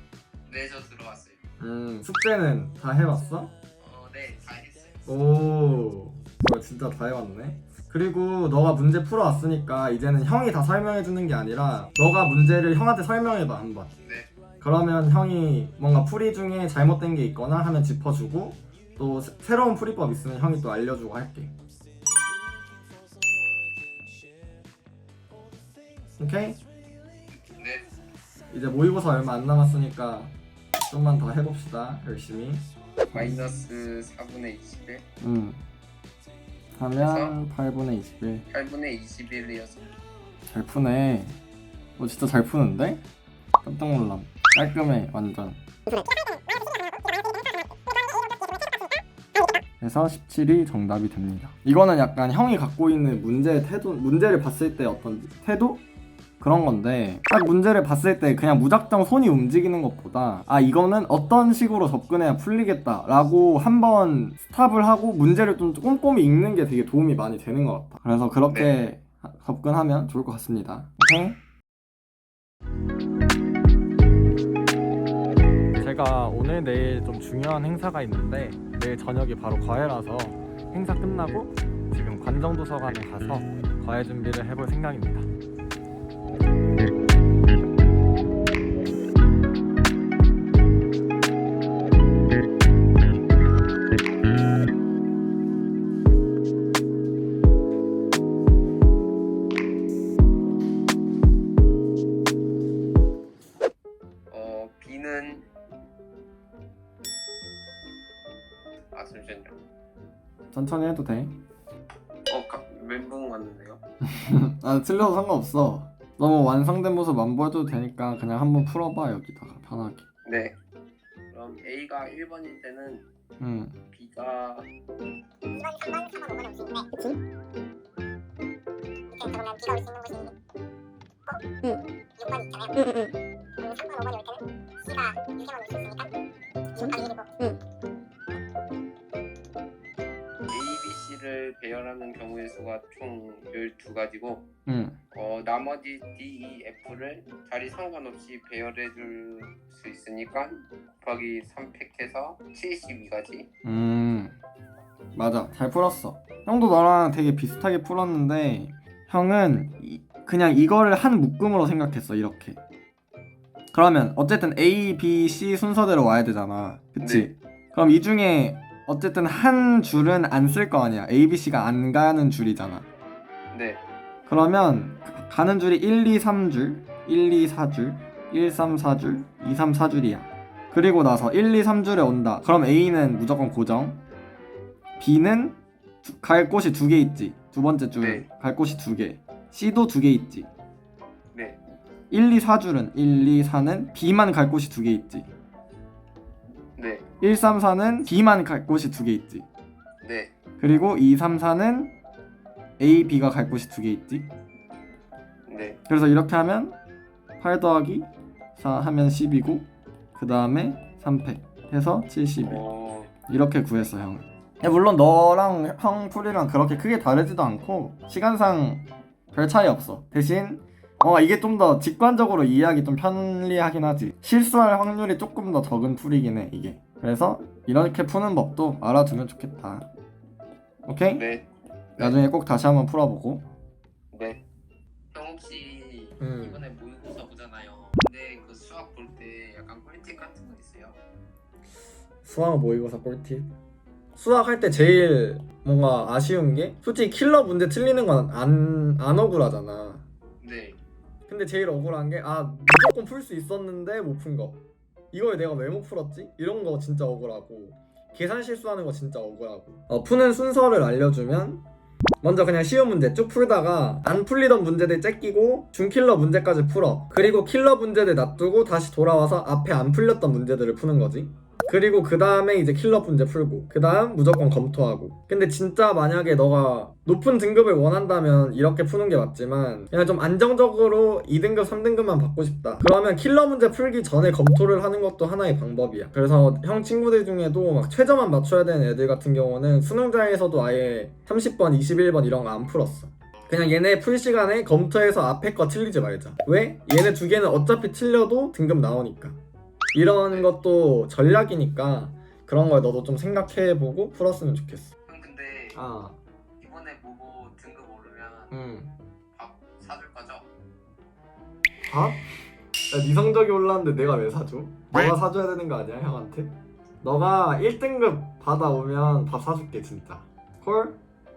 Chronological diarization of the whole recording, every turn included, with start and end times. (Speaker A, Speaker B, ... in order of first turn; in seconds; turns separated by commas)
Speaker A: 0.5-1.4, Speaker B: 1.6-3.5, Speaker A: 3.8-5.0, Speaker B: 5.1-13.9, Speaker A: 14.0-14.3, Speaker B: 14.6-21.5, Speaker B: 26.2-26.6, Speaker A: 27.6-27.9, Speaker B: 28.5-30.4, Speaker B: 30.9-33.5, Speaker A: 33.1-35.0, Speaker B: 35.2-35.6, Speaker B: 36.8-38.5, Speaker A: 37.0-37.4, Speaker A: 38.5-39.9, Speaker B: 40.5-41.4, Speaker B: 42.0-43.0, Speaker B: 43.6-45.6, Speaker C: 46.0-48.6, Speaker B: 49.8-55.8, Speaker B: 56.4-71.4, Speaker A: 68.5-68.8, Speaker B: 75.8-85.3, Speaker A: 104.3-105.5, Speaker A: 108.9-109.6, Speaker B: 110.5-111.4, Speaker A: 112.3-113.8, Speaker B: 114.0-120.1, Speaker A: 120.2-120.6, Speaker A: 121.3-123.1, Speaker B: 123.4-123.8, Speaker A: 123.9-124.7, Speaker C: 125.5-127.1, Speaker C: 129.1-130.3, Speaker C: 131.3-136.1, Speaker C: 136.8-137.5, Speaker A: 140.5-144.5, Speaker B: 144.7-145.0, Speaker A: 145.1-153.5, Speaker B: 153.6-154.4, Speaker B: 155.1-162.6, Speaker B: 163.7-172.9, Speaker A: 167.0-167.3, Speaker A: 173.5-173.8, Speaker B: 174.3-184.0, Speaker B: 185.0-190.5, Speaker A: 188.0-188.3, Speaker A: 191.3-191.6, Speaker B: 192.1-195.3, Speaker A: 196.8-197.1, Speaker B: 197.2-199.5, Speaker A: 200.0-200.3, Speaker B: 200.6-201.9, Speaker B: 202.8-204.3, Speaker A: 205.5-205.8, Speaker B: 205.9-206.8, Speaker B: 207.4-212.7, Speaker A: 212.4-213.1, Speaker B: 213.2-229.9, Speaker B: 230.9-231.2, Speaker A: 231.1-232.2, Speaker B: 232.0-233.5, Speaker A: 234.1-234.4, Speaker A: 235.1-241.0, Speaker B: 236.2-236.6, Speaker B: 242.2-243.5, Speaker B: 244.2-250.0, Speaker A: 250.4-250.8, Speaker B: 251.3-254.6, Speaker B: 255.1-261.6, Speaker B: 262.2-299.4, Speaker A: 293.4-293.7, Speaker B: 299.9-304.9, Speaker A: 300.2-300.5, Speaker A: 305.1-305.8, Speaker B: 305.8-306.2, Speaker A: 306.6-308.5, Speaker B: 308.5-308.9, Speaker A: 309.4-310.5, Speaker B: 311.9-312.2, Speaker B: 312.9-321.0